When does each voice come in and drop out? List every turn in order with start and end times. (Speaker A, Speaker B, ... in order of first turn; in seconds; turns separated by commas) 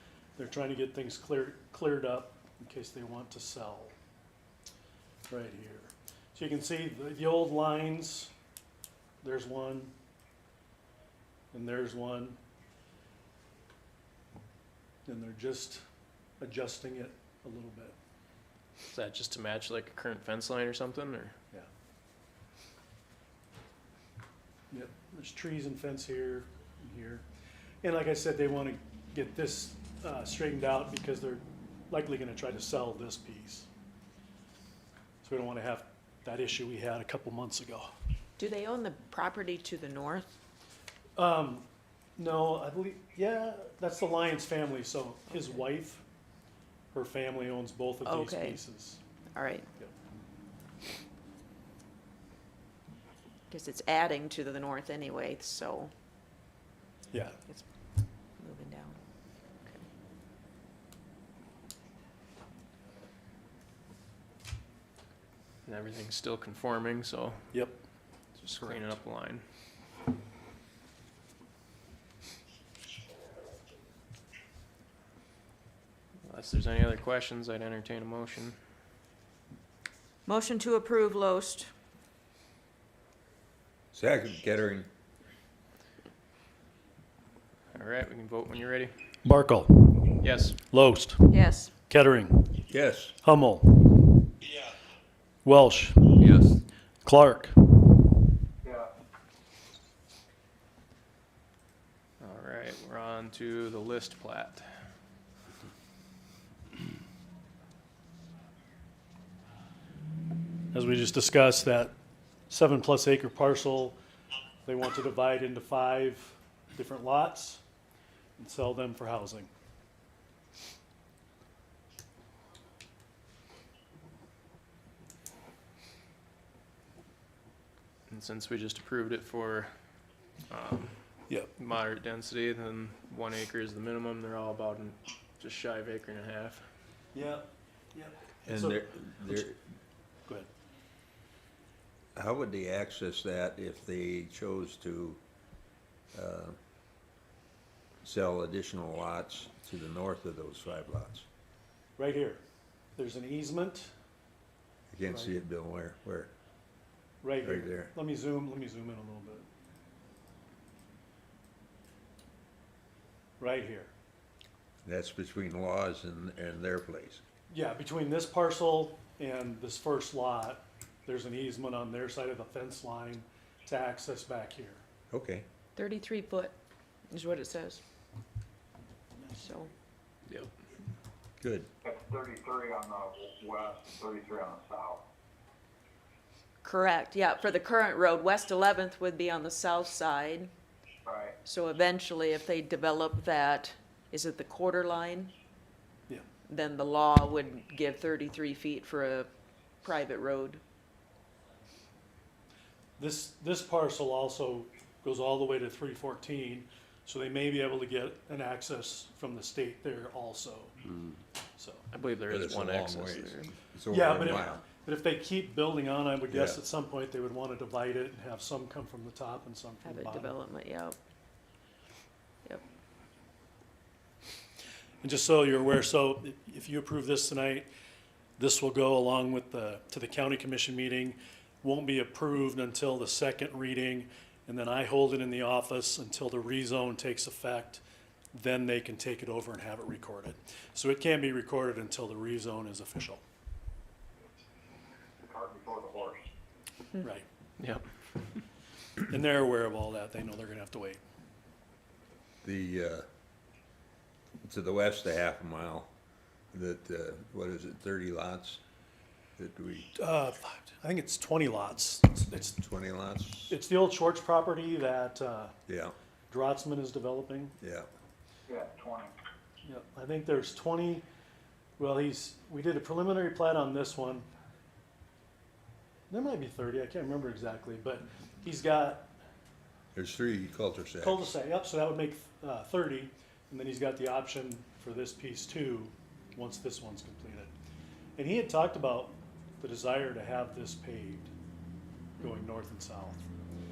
Speaker A: 0.4-3.9, Speaker A: 5.3-8.3, Speaker A: 9.2-9.9, Speaker A: 11.5-12.4, Speaker A: 15.1-15.8, Speaker A: 16.4-17.9, Speaker B: 18.9-21.3, Speaker A: 24.7-27.2, Speaker A: 27.8-33.7, Speaker A: 35.2-37.9, Speaker C: 38.4-40.3, Speaker A: 41.2-41.6, Speaker A: 42.2-46.0, Speaker A: 46.9-49.0, Speaker C: 48.0-48.6, Speaker C: 49.3-49.7, Speaker C: 53.5-55.9, Speaker A: 57.1-57.4, Speaker C: 58.4-59.0, Speaker B: 65.7-67.5, Speaker A: 67.5-67.8, Speaker B: 68.4-69.4, Speaker A: 68.5-68.8, Speaker B: 76.2-78.6, Speaker C: 80.2-81.7, Speaker D: 83.9-84.9, Speaker B: 87.7-88.9, Speaker A: 89.2-90.1, Speaker B: 90.2-90.6, Speaker A: 90.7-91.3, Speaker C: 91.3-91.7, Speaker A: 91.9-92.6, Speaker D: 92.7-93.2, Speaker A: 93.2-94.1, Speaker A: 95.4-96.2, Speaker B: 96.2-96.5, Speaker A: 97.0-97.9, Speaker E: 98.6-98.9, Speaker B: 102.2-104.7, Speaker A: 110.7-111.9, Speaker A: 112.5-114.0, Speaker A: 114.7-117.6, Speaker A: 118.4-119.5, Speaker B: 128.1-129.7, Speaker B: 130.5-130.9, Speaker B: 131.6-136.7, Speaker A: 137.1-139.5, Speaker D: 138.5-139.6, Speaker D: 142.2-145.2, Speaker D: 146.1-146.6, Speaker D: 148.0-151.2, Speaker A: 152.0-152.4, Speaker A: 152.9-153.9, Speaker D: 154.9-156.3, Speaker A: 155.1-155.3, Speaker A: 157.2-159.5, Speaker D: 157.4-157.9, Speaker A: 163.4-163.9, Speaker D: 164.8-167.2, Speaker A: 167.5-174.8, Speaker D: 175.1-175.4, Speaker C: 175.8-176.5, Speaker C: 177.1-177.8, Speaker C: 179.3-179.7, Speaker D: 181.4-181.7, Speaker E: 181.8-185.0, Speaker C: 186.6-190.5, Speaker E: 191.0-191.4, Speaker C: 191.4-195.3, Speaker C: 196.5-199.3, Speaker C: 199.8-200.6, Speaker A: 203.0-210.8, Speaker A: 211.6-211.8, Speaker B: 211.9-213.5, Speaker D: 212.3-214.6, Speaker A: 213.9-220.3, Speaker D: 216.3-216.6, Speaker C: 219.8-221.0, Speaker A: 225.0-227.7, Speaker A: 228.4-237.8, Speaker A: 238.3-243.2, Speaker E: 245.2-246.3, Speaker A: 247.0-247.2, Speaker B: 247.6-247.8, Speaker A: 249.1-251.0, Speaker D: 252.4-253.0, Speaker D: 254.4-255.9, Speaker D: 256.5-258.6, Speaker D: 259.4-259.9, Speaker A: 259.9-262.6, Speaker D: 262.6-263.6, Speaker A: 263.5-265.5, Speaker D: 265.7-265.9, Speaker A: 266.3-267.5, Speaker D: 267.6-267.9, Speaker E: 268.5-269.1, Speaker A: 269.6-271.0, Speaker A: 271.8-274.2, Speaker A: 276.1-279.1, Speaker D: 279.9-281.3, Speaker A: 281.0-287.5, Speaker A: 288.2-291.3, Speaker C: 292.2-292.4, Speaker A: 292.2-293.3